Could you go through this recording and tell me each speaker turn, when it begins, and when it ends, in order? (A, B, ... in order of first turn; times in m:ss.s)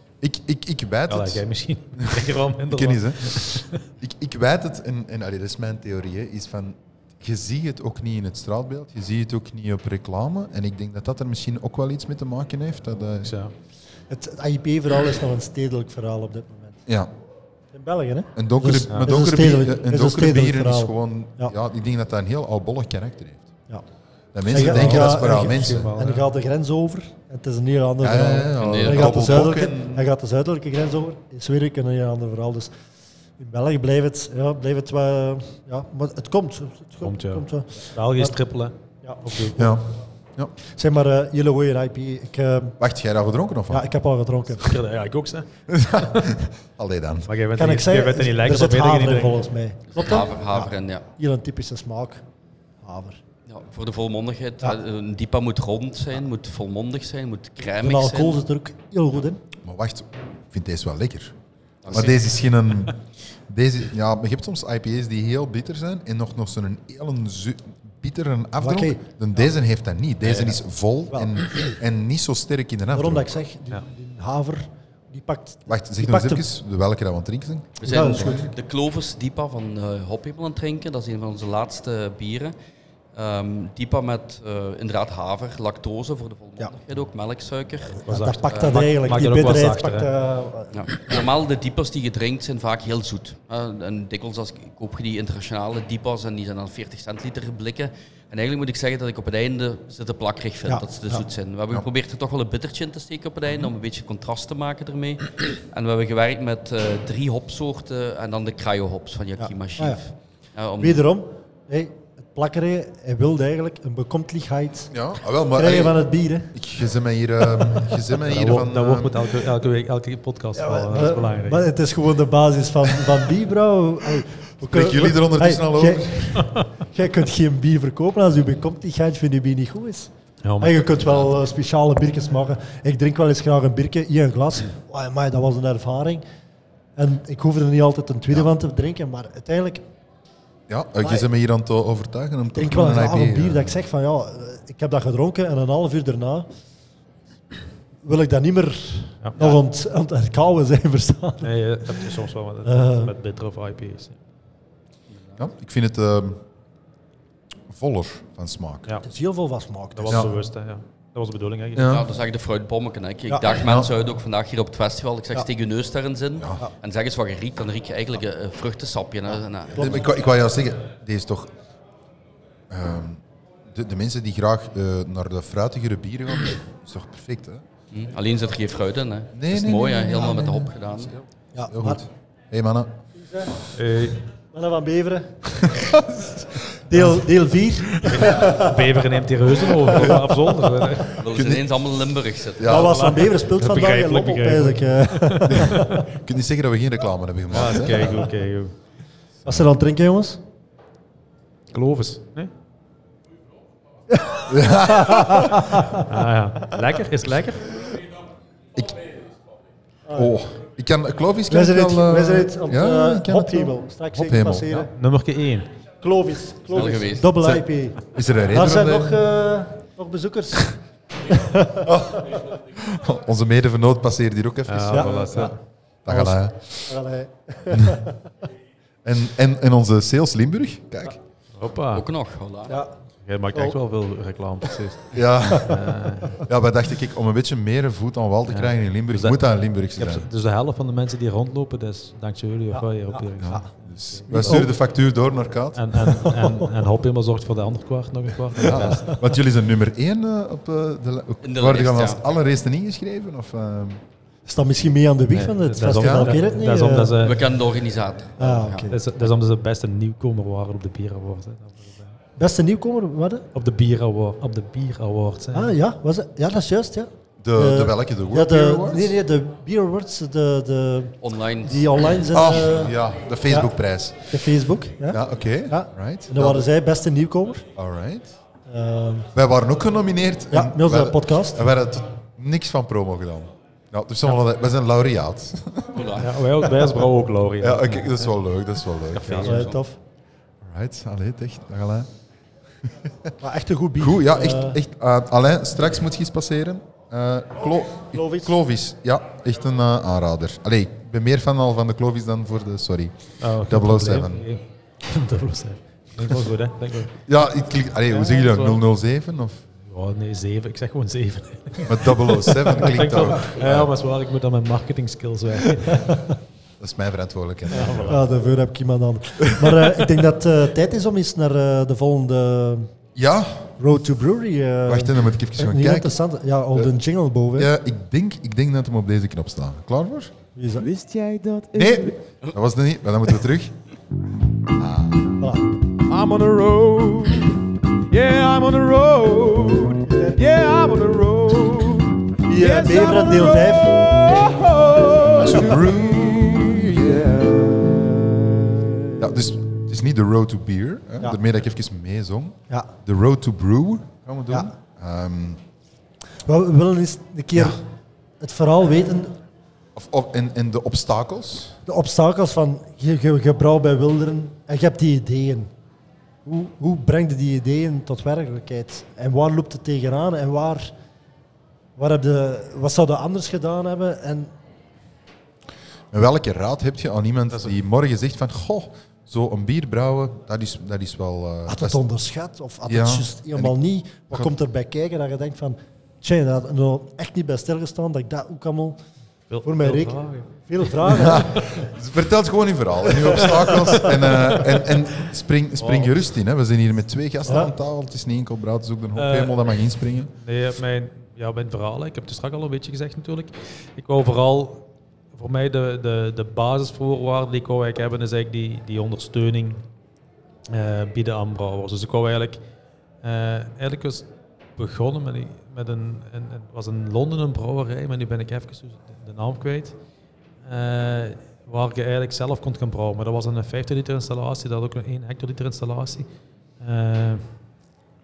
0:00.2-0:01.4 A
0:01.1-0:03.8 B
0:02.0-0:13.3 A
0:13.2-0:13.5 B
0:14.1-0:16.8 C
0:17.7-0:21.5 C
0:18.4-0:23.5 A
0:18.9-0:19.2 B
0:24.3-0:25.9 A
0:24.5-0:32.7 C
0:24.5-0:26.3 B
0:28.0-0:30.1 A
0:28.6-0:29.2 D
0:33.4-0:38.4 C
0:37.0-0:39.7 B
0:39.6-0:40.5 A
0:40.8-0:42.8 C
0:42.8-0:43.9 A
0:43.7-0:44.8 C
0:44.6-0:46.3 B
0:45.7-0:47.3 A
0:47.3-0:49.4 B
0:47.6-0:52.2 C
0:49.9-0:51.0 D
0:52.8-0:53.2 C
0:53.5-0:58.4 D
0:57.8-0:59.4 C
0:59.6-1:01.4 A
1:01.8-1:02.2 D
1:01.9-1:13.3 A
1:08.6-1:09.0 C
1:11.1-1:11.7 C
1:12.9-1:16.5 C
1:15.7-1:18.5 A
1:17.8-1:22.6 D
1:17.8-1:18.5 C
1:23.2-1:28.9 D
1:28.0-1:30.1 B
1:28.0-1:31.2 C
1:30.7-1:51.0 D
1:40.7-1:41.2 C
1:49.4-1:50.0 C
1:50.8-1:54.9 C
1:54.9-1:56.0 A
1:55.5-1:56.5 C
1:56.5-1:59.3 A
1:57.6-1:57.8 C
1:58.2-2:01.7 B
2:00.6-2:16.2 C
2:04.6-2:06.5 A
2:10.4-2:10.8 B
2:17.0-2:19.8 C
2:20.7-2:23.9 A
2:22.5-2:26.5 C
2:28.0-2:31.6 C
2:29.2-2:29.5 B
2:31.4-2:34.2 B
2:32.6-2:33.1 C
2:35.1-2:35.4 D
2:35.4-2:36.4 A
2:37.7-2:38.9 A
2:39.0-2:40.3 C
2:39.9-2:42.0 B
2:41.8-2:42.1 A
2:41.8-2:50.1 D
2:43.6-2:43.9 A
2:46.4-2:46.6 A
2:49.8-2:50.0 C
2:49.8-2:51.5 A
2:52.7-2:57.6 A
2:57.9-3:01.1 D
2:59.4-3:03.0 A
3:00.2-3:00.7 C
3:01.5-3:02.0 C
3:03.2-3:03.7 C
3:03.7-3:04.2 B
3:04.5-3:05.8 C
3:05.6-3:06.7 A
3:06.7-3:08.9 C
3:08.0-3:11.2 B
3:09.9-3:10.2 C
3:11.2-3:12.7 D
3:11.3-3:11.7 A
3:12.6-3:13.2 A
3:12.6-3:16.1 C
3:12.8-3:16.0 B
3:15.5-3:18.3 A
3:17.5-3:18.8 B
3:19.5-3:20.4 C
3:21.7-3:22.5 B
3:24.1-3:26.0 C
3:24.5-3:25.8 A
3:26.0-3:27.7 B
3:28.8-3:29.0 A
3:30.1-3:34.7 A
3:31.5-3:34.9 C
3:34.7-3:35.7 B
3:36.0-3:38.0 C
3:36.7-3:37.6 D
3:38.1-3:39.2 A
3:38.5-3:42.2 C
3:41.8-3:47.0 A
3:44.7-3:45.6 B
3:44.9-3:45.6 C
3:46.1-3:48.2 C
3:47.7-3:48.0 A
3:49.0-3:51.2 A
3:51.6-3:52.1 B
3:51.9-3:52.8 D
3:53.2-3:56.4 B
3:55.1-3:55.8 A
3:55.5-3:55.8 C
3:56.4-4:00.3 A
3:58.5-3:59.4 B
4:00.0-4:04.7 B
4:02.7-4:03.7 C
4:03.4-4:06.1 A
4:04.3-4:04.7 C
4:05.8-4:09.2 B
4:06.1-4:06.6 C
4:08.6-4:14.0 A
4:11.4-4:12.2 D
4:14.5-4:17.2 C
4:15.3-4:17.5 B
4:16.0-4:16.4 A
4:17.2-4:19.0 D
4:18.4-4:19.0 C
4:18.9-4:22.2 B
4:22.4-4:23.5 C
4:23.5-4:25.8 B
4:25.5-4:33.7 C
4:27.4-4:29.2 A
4:31.2-4:32.4 D
4:32.3-4:34.4 A
4:34.3-4:37.7 C
4:35.1-4:36.7 A
4:37.8-4:38.3 A
4:38.7-4:39.3 C
4:39.3-4:46.1 A
4:40.5-4:41.7 C
4:45.9-4:46.4 D
4:46.2-4:48.3 B
4:47.6-4:49.5 A
4:49.1-4:49.7 B
4:49.3-4:49.8 D
4:49.5-4:50.0 C
4:50.6-4:52.1 A
4:52.8-4:53.3 A
4:53.4-4:54.8 C
4:54.0-5:04.4 A
4:58.1-4:58.5 C
5:03.4-5:07.2 B
5:07.2-5:09.6 A
5:08.2-5:08.8 B
5:09.8-5:16.2 B
5:11.9-5:13.9 A
5:15.9-5:16.2 C
5:16.8-5:18.3 A
5:17.7-5:18.2 B
5:18.1-5:22.9 C
5:19.6-5:19.9 A
5:23.2-5:23.7 A
5:23.8-5:27.7 C
5:24.9-5:26.2 A
5:27.6-5:30.3 A
5:30.6-5:30.9 C
5:30.8-5:32.2 E
5:31.7-5:33.8 A
5:34.8-5:35.3 A
5:35.4-5:35.8 C
5:36.1-5:49.2 E
5:40.1-5:40.4 C
5:42.5-5:44.0 C
5:45.3-5:47.3 A
5:49.2-5:55.6 A
5:56.4-5:57.8 C
5:57.5-5:57.8 A
5:58.4-5:59.4 C
6:00.0-6:01.8 A
6:01.9-6:05.7 C
6:06.4-6:10.9 C
6:12.0-6:14.5 C
6:16.1-6:22.0 A
6:21.7-6:29.0 C
6:22.9-6:23.8 A
6:29.5-6:31.7 B
6:29.6-6:31.9 C
6:31.1-6:40.3 A
6:33.2-6:34.2 C
6:35.8-6:36.1 B
6:39.2-6:39.6 B
6:40.4-6:49.8 B
6:50.7-6:52.6 B
6:53.2-7:00.0 B
7:00.6-7:06.3 B
7:06.8-7:07.5 B